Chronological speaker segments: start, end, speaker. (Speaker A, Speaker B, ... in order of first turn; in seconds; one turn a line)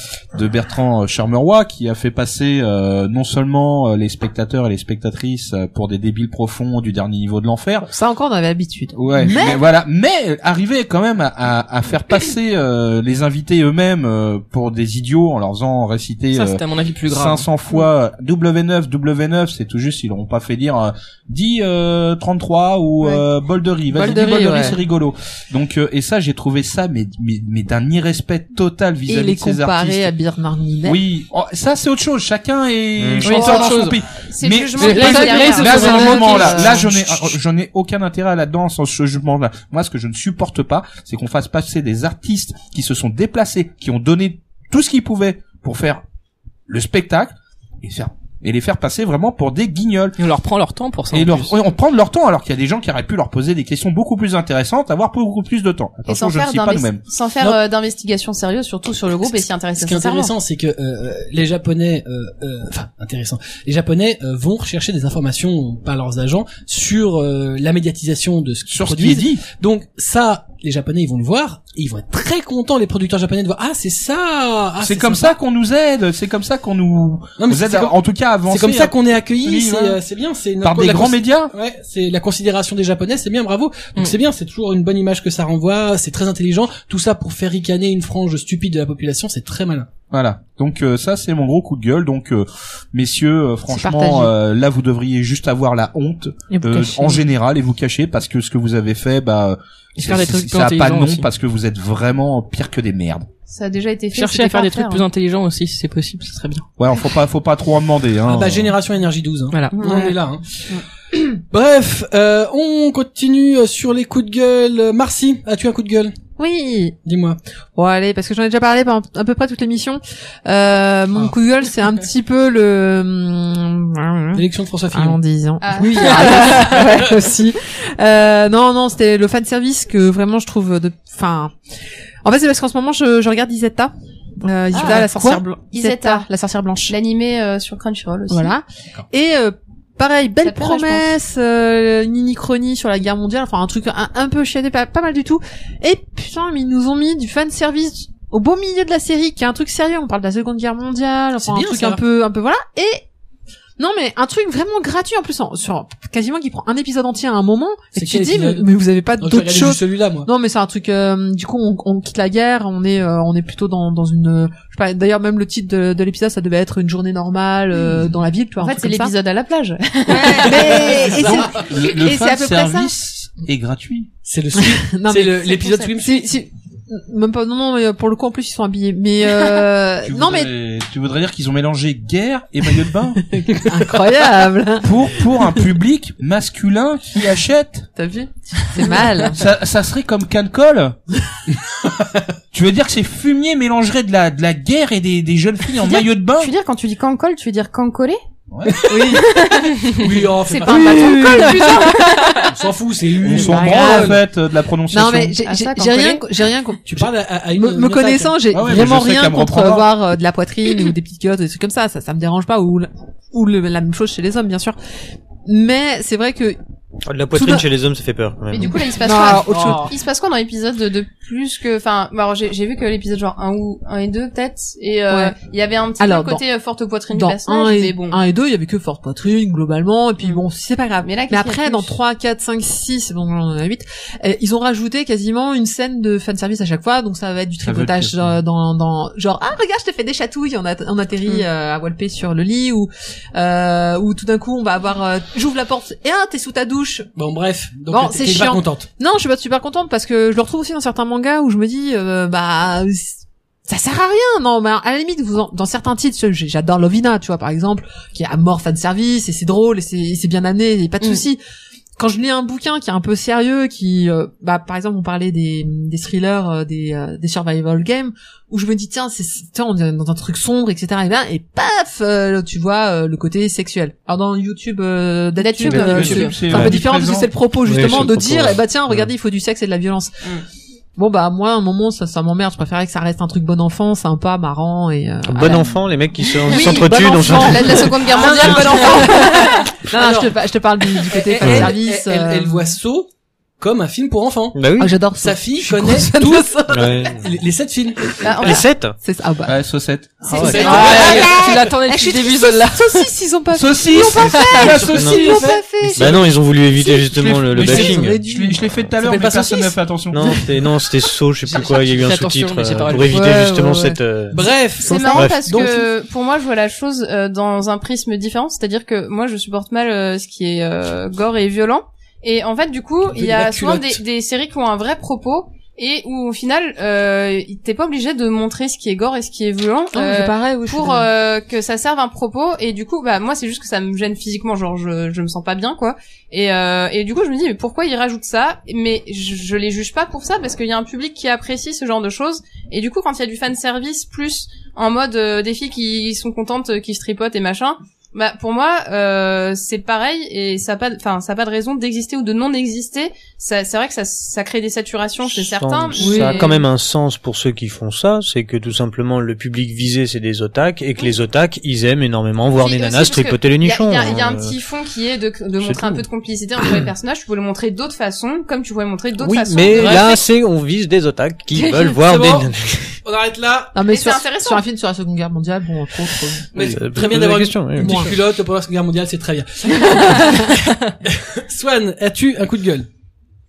Speaker A: 0.3-7.9
Speaker B: 7.9-9.6
Speaker A: 8.9-30.1
Speaker C: 16.3-17.5
Speaker B: 23.0-23.2
Speaker B: 23.9-24.8
Speaker B: 29.1-31.0
Speaker A: 30.9-46.0
Speaker D: 33.0-33.4
Speaker C: 33.2-34.0
Speaker B: 33.2-33.8
Speaker E: 33.3-36.8
Speaker B: 34.8-37.3
Speaker C: 35.6-35.9
Speaker A: 46.7-50.2
Speaker C: 50.2-51.5
Speaker A: 51.1-57.0
Speaker E: 56.1-60.3
Speaker F: 59.8-75.4
Speaker A: 68.7-69.5
Speaker A: 74.8-80.0
Speaker F: 77.4-78.0
Speaker F: 78.5-89.9
Speaker A: 80.6-81.5
Speaker A: 90.1-103.3
Speaker B: 93.7-94.3
Speaker B: 96.5-97.3
Speaker C: 100.0-101.3
Speaker E: 103.5-105.0
Speaker C: 104.1-106.7
Speaker A: 106.8-108.7
Speaker F: 108.2-110.6
Speaker C: 109.5-110.1
Speaker E: 109.8-110.1
Speaker F: 111.1-116.1
Speaker B: 116.4-117.0
Speaker F: 117.0-117.4
Speaker B: 117.8-131.6
Speaker F: 124.3-125.2
Speaker E: 125.6-126.8
Speaker B: 132.2-136.9
Speaker E: 134.7-136.3
Speaker E: 136.9-138.6
Speaker B: 138.3-153.1
Speaker E: 140.4-141.1
Speaker F: 151.4-152.0
Speaker B: 153.8-169.1
Speaker F: 157.9-158.7
Speaker F: 159.2-160.3
Speaker E: 168.6-171.3
Speaker B: 170.1-172.9
Speaker A: 170.8-174.1
Speaker F: 174.2-176.3
Speaker B: 174.5-180.5
Speaker E: 175.4-176.0
Speaker E: 179.2-179.6
Speaker A: 180.0-183.3
Speaker B: 183.3-185.5
Speaker A: 184.8-187.9
Speaker B: 188.0-189.5
Speaker A: 189.3-191.0
Speaker F: 191.6-192.3
Speaker A: 192.5-196.5
Speaker E: 195.8-198.2
Speaker A: 198.5-198.8
Speaker F: 198.7-199.2
Speaker B: 198.9-199.7
Speaker E: 199.0-200.0
Speaker F: 199.9-201.5
Speaker B: 200.5-202.3
Speaker E: 200.7-202.5
Speaker F: 202.4-204.2
Speaker A: 203.2-205.4
Speaker B: 203.2-204.2
Speaker B: 204.9-214.8
Speaker E: 205.4-206.2
Speaker F: 206.8-208.4
Speaker A: 208.5-209.9
Speaker B: 215.4-216.6
Speaker D: 217.1-218.8
Speaker B: 217.3-217.7
Speaker E: 218.5-228.2
Speaker B: 219.0-219.9
Speaker C: 219.5-219.8
Speaker B: 225.1-225.3
Speaker B: 226.0-226.4
Speaker B: 227.1-247.1
Speaker E: 231.0-231.9
Speaker A: 237.6-238.4
Speaker F: 247.2-248.9
Speaker B: 247.9-261.4
Speaker B: 262.0-280.2
Speaker E: 275.4-276.4
Speaker A: 275.7-277.3
Speaker D: 276.5-276.8
Speaker D: 277.6-279.1
Speaker B: 281.0-285.8
Speaker D: 285.3-288.1
Speaker B: 286.5-292.8
Speaker E: 286.5-289.7
Speaker F: 288.2-289.0
Speaker F: 289.9-290.4
Speaker F: 291.0-293.1
Speaker D: 291.4-291.7
Speaker F: 293.6-298.3
Speaker D: 294.6-295.0
Speaker B: 294.8-297.1
Speaker D: 296.7-297.2
Speaker E: 298.2-298.6
Speaker D: 298.4-299.0
Speaker B: 299.0-299.6
Speaker A: 299.5-300.4
Speaker B: 300.2-308.6
Speaker F: 300.3-301.4
Speaker D: 300.3-301.1
Speaker C: 300.5-303.1
Speaker A: 303.6-305.0
Speaker F: 304.3-306.3
Speaker D: 304.9-308.2
Speaker A: 307.5-310.5
Speaker F: 307.6-308.1
Speaker F: 309.0-309.8
Speaker D: 310.1-315.8
Speaker F: 311.5-311.8
Speaker C: 311.6-313.1
Speaker B: 313.1-314.0
Speaker F: 314.3-315.8
Speaker E: 314.8-356.6
Speaker F: 323.1-324.0
Speaker B: 329.9-331.1
Speaker D: 355.3-364.6
Speaker B: 356.0-356.6
Speaker E: 362.6-370.2
Speaker D: 365.6-366.0
Speaker D: 369.2-373.0
Speaker F: 369.8-370.1
Speaker F: 371.9-372.5
Speaker F: 373.0-373.8
Speaker B: 373.8-376.6
Speaker E: 373.9-374.6
Speaker F: 376.5-380.5
Speaker D: 376.6-378.1
Speaker B: 377.8-378.1
Speaker B: 379.7-380.5
Speaker F: 381.1-382.9